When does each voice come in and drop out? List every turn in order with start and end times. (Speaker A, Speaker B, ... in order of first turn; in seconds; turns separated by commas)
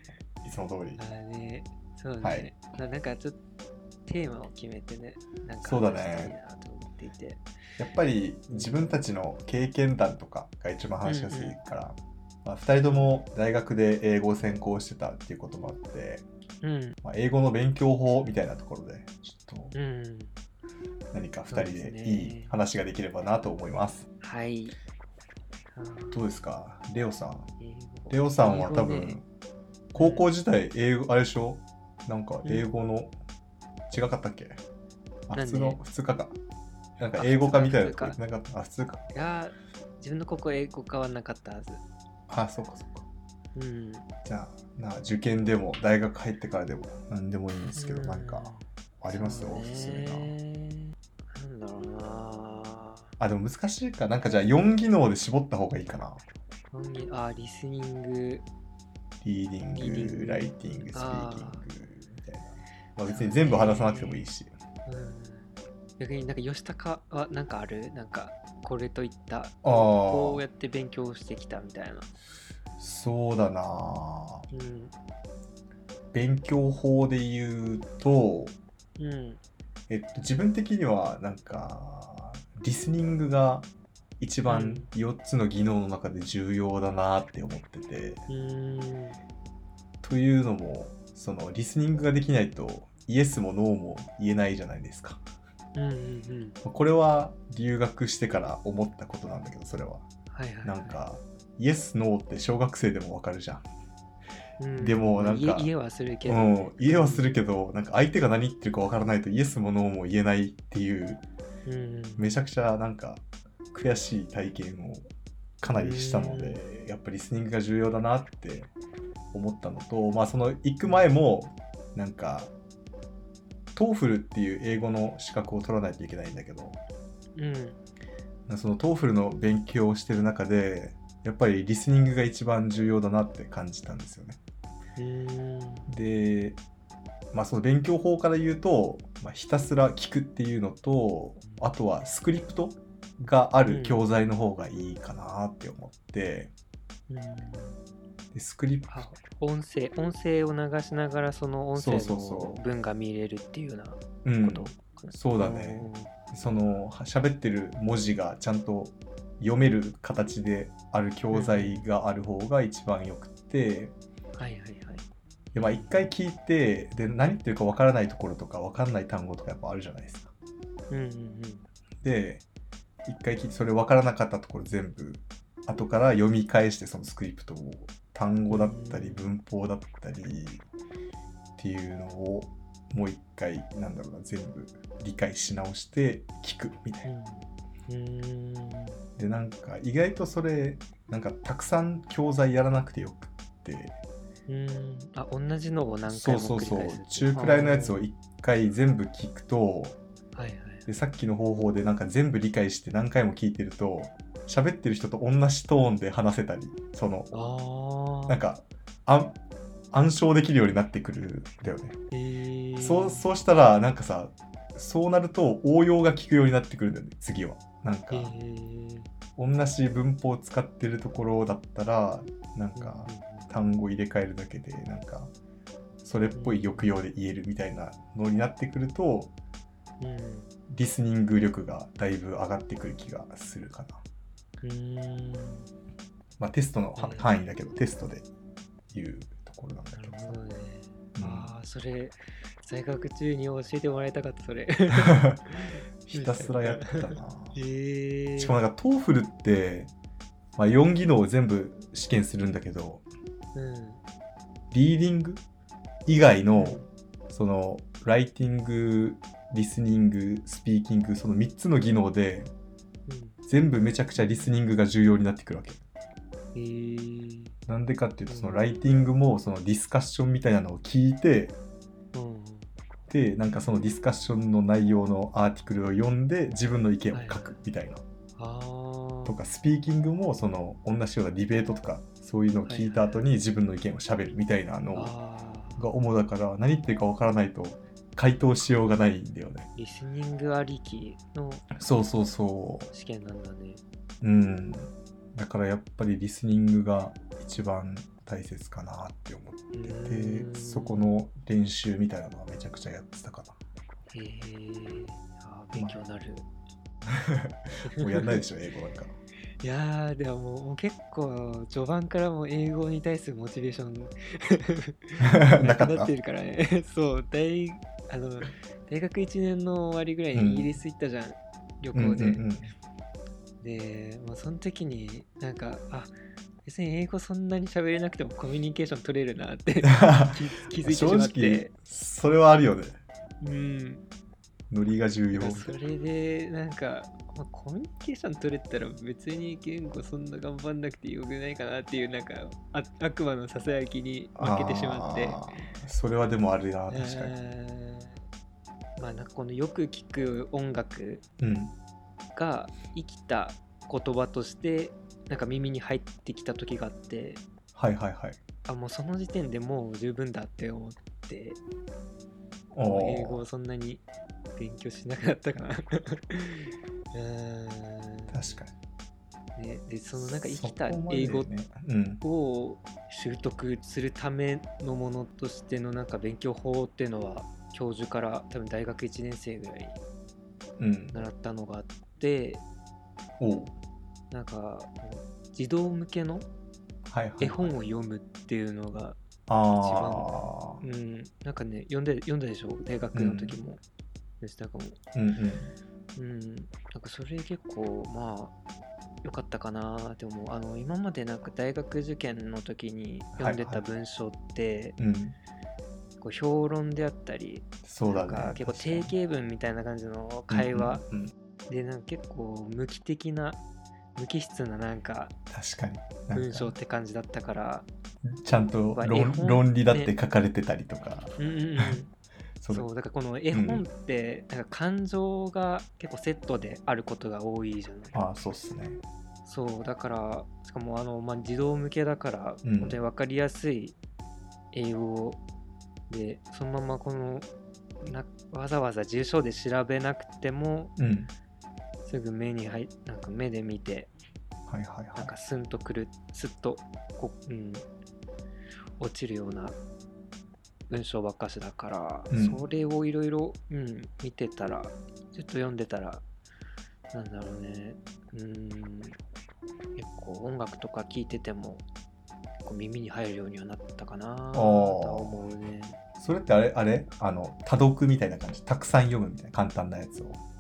Speaker A: 0.4-1.0, Speaker B: 1.0-3.4, Speaker A: 2.2-2.5, Speaker B: 4.1-7.4, Speaker A: 5.6-6.3, Speaker A: 7.8-16.3, Speaker B: 8.5-9.0, Speaker B: 11.1-11.6, Speaker B: 16.6-17.0, Speaker A: 17.0-19.7, Speaker B: 19.7-20.4, Speaker A: 21.1-24.1, Speaker B: 21.5-22.6, Speaker B: 24.2-24.8, Speaker B: 25.7-26.2, Speaker A: 26.1-27.5, Speaker B: 27.6-29.2, Speaker A: 28.1-29.2, Speaker A: 29.9-33.1, Speaker B: 30.0-30.3, Speaker A: 33.9-34.6, Speaker A: 35.3-36.4, Speaker B: 35.4-35.8, Speaker A: 37.0-39.1, Speaker B: 37.1-38.2, Speaker B: 39.1-41.8, Speaker A: 42.3-43.1, Speaker B: 43.5-44.1, Speaker A: 44.2-50.3, Speaker B: 47.8-53.1, Speaker A: 53.2-56.2, Speaker B: 56.7-58.5, Speaker A: 59.2-64.5, Speaker B: 59.7-61.7, Speaker B: 63.1-64.2, Speaker B: 64.9-72.1, Speaker A: 69.6-70.4, Speaker A: 72.8-74.5, Speaker B: 74.5-74.9, Speaker A: 76.1-78.6, Speaker B: 79.0-79.4, Speaker A: 79.9-83.7, Speaker A: 84.2-88.2, Speaker B: 84.5-84.9, Speaker B: 88.3-89.2, Speaker A: 90.0-95.2, Speaker B: 95.8-96.6, Speaker A: 96.6-100.1, Speaker B: 100.3-101.0, Speaker A: 100.6-103.7, Speaker B: 104.6-107.4, Speaker A: 104.8-105.7, Speaker A: 106.3-111.2, Speaker B: 111.7-112.3, Speaker A: 112.2-115.1, Speaker A: 115.6-118.7, Speaker B: 115.8-116.6, Speaker A: 119.3-122.5, Speaker A: 123.8-126.8, Speaker B: 127.4-127.8, Speaker A: 128.5-134.4, Speaker B: 135.0-135.9, Speaker A: 135.9-136.6, Speaker A: 137.3-146.5, Speaker B: 143.7-144.0, Speaker B: 147.1-147.8, Speaker A: 148.3-149.2, Speaker B: 148.9-156.1, Speaker A: 151.8-152.6, Speaker A: 154.2-163.9, Speaker B: 161.3-161.8, Speaker B: 164.4-165.1, Speaker A: 165.5-170.3, Speaker B: 165.6-166.1, Speaker B: 170.9-171.7, Speaker A: 172.0-172.4, Speaker A: 173.1-180.7, Speaker B: 178.5-179.3, Speaker A: 181.6-187.1, Speaker B: 187.1-189.0, Speaker A: 189.2-194.0, Speaker B: 194.5-198.0, Speaker A: 196.1-200.0, Speaker B: 200.3-200.9, Speaker A: 200.9-207.3, Speaker B: 207.3-208.4, Speaker A: 208.3-209.4, Speaker A: 209.9-212.0, Speaker B: 212.1-213.2, Speaker A: 212.8-218.3, Speaker B: 218.1-219.1, Speaker A: 219.4-225.3, Speaker B: 222.8-223.5, Speaker A: 226.0-229.3, Speaker B: 226.3-226.9, Speaker B: 230.0-230.5, Speaker A: 230.7-234.0, Speaker B: 234.6-235.7, Speaker A: 236.4-238.3, Speaker B: 237.0-237.3, Speaker A: 238.9-240.4, Speaker B: 239.9-248.6, Speaker A: 241.2-241.5, Speaker A: 245.0-245.4, Speaker A: 246.0-247.6, Speaker A: 248.4-249.9, Speaker A: 250.6-253.1, Speaker B: 253.6-254.0, Speaker A: 254.7-255.4, Speaker A: 256.1-262.5, Speaker B: 256.6-256.9, Speaker B: 263.1-263.4, Speaker A: 263.5-265.8, Speaker B: 266.6-267.6, Speaker A: 267.7-271.6, Speaker B: 268.3-268.6, Speaker B: 272.1-272.7, Speaker A: 273.1-278.0, Speaker B: 277.1-277.6, Speaker B: 278.4-279.4, Speaker A: 279.3-285.1, Speaker B: 282.7-283.2, Speaker B: 284.9-285.8, Speaker A: 285.8-289.7, Speaker B: 289.8-291.7, Speaker A: 291.8-292.9, Speaker B: 292.9-293.8, Speaker A: 294.2-303.6, Speaker B: 299.7-301.0, Speaker B: 304.1-306.5, Speaker A: 307.1-309.2, Speaker B: 307.9-308.4, Speaker B: 309.6-322.4, Speaker A: 315.2-316.1, Speaker A: 320.3-320.7, Speaker A: 321.9-322.7, Speaker B: 323.6-326.1, Speaker B: 326.6-331.7, Speaker A: 329.8-333.0, Speaker B: 333.4-334.0, Speaker A: 334.7-335.7, Speaker B: 335.3-345.4, Speaker A: 344.4-347.3, Speaker B: 346.9-348.1, Speaker B: 349.0-351.2, Speaker A: 351.4-351.7, Speaker B: 352.4-357.4, Speaker A: 357.8-358.4, Speaker B: 358.7-361.6, Speaker A: 362.7-363.5, Speaker B: 362.8-364.0, Speaker B: 364.6-368.6, Speaker A: 368.3-368.7, Speaker B: 369.6-371.5, Speaker A: 370.1-372.2, Speaker B: 372.2-380.0, Speaker A: 380.8-381.3, Speaker B: 381.1-382.6, Speaker A: 383.4-383.7, Speaker B: 384.3-386.5, Speaker A: 387.1-387.7, Speaker B: 387.4-389.2, Speaker A: 389.5-390.8, Speaker B: 389.8-393.8, Speaker A: 393.1-393.6, Speaker B: 394.4-395.0, Speaker A: 395.1-395.7, Speaker B: 396.2-398.6, Speaker B: 399.2-405.0, Speaker A: 403.4-403.8, Speaker A: 405.0-405.4, Speaker B: 406.2-411.1, Speaker A: 407.8-409.1, Speaker A: 410.5-411.3, Speaker B: 411.7-413.6, Speaker B: 414.1-415.4, Speaker A: 415.5-416.8, Speaker B: 416.3-417.9, Speaker A: 418.3-421.9, Speaker B: 419.0-420.1, Speaker B: 421.4-422.1, Speaker A: 422.6-422.9, Speaker B: 422.7-428.2, Speaker A: 423.5-423.8, Speaker A: 428.1-429.0, Speaker B: 429.4-434.0, Speaker A: 432.6-433.0, Speaker B: 434.7-435.4, Speaker B: 436.1-437.5, Speaker B: 438.0-440.9, Speaker A: 441.0-441.3, Speaker B: 442.1-444.1, Speaker A: 444.7-445.3, Speaker B: 445.2-447.9, Speaker B: 449.0-449.8, Speaker B: 450.9-456.2, Speaker A: 452.3-452.6, Speaker B: 457.1-459.2, Speaker B: 460.0-461.8, Speaker B: 462.6-466.0, Speaker A: 464.5-465.4, Speaker A: 466.2-470.4